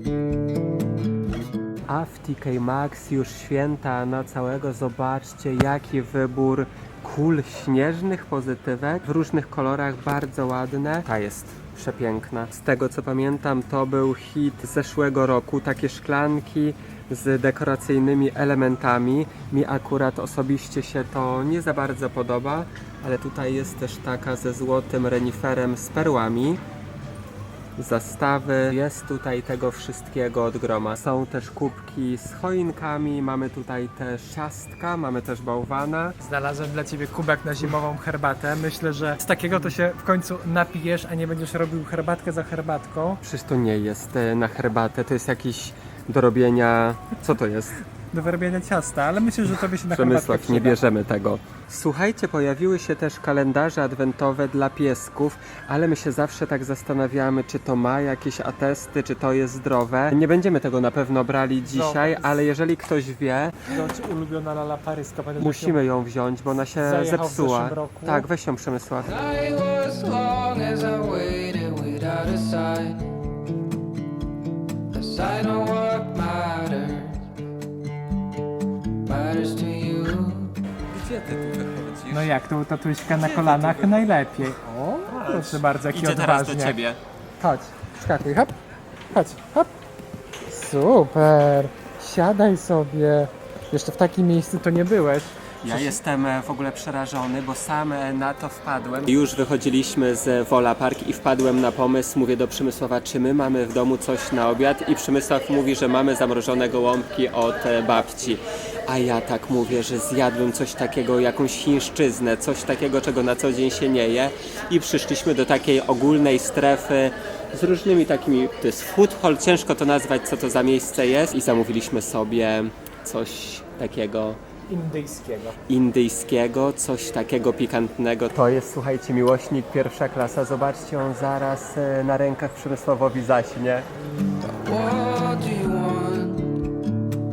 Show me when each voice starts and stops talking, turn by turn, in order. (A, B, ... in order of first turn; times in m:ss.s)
0:01.9-0:26.6 A
0:27.8-0:36.2 A
0:36.2-0:43.2 B
0:43.2-0:47.8 A
0:48.1-0:50.8 B
0:49.5-1:03.7 A
1:01.6-1:02.4 B
1:03.7-1:05.8 B
1:05.4-1:09.1 A
1:06.8-1:08.3 B
1:09.0-1:13.1 C
1:14.9-1:17.2 C
1:19.0-1:20.5 C
1:20.9-1:22.3 A
1:22.1-1:26.8 B
1:23.1-1:24.0 A
1:25.1-1:27.0 A
1:27.4-1:28.5 B
1:29.1-1:29.7 B
1:30.4-1:36.0 B
1:35.6-2:04.4 A
2:04.7-2:05.6 B
2:05.7-2:13.8 A
2:14.5-2:16.7 C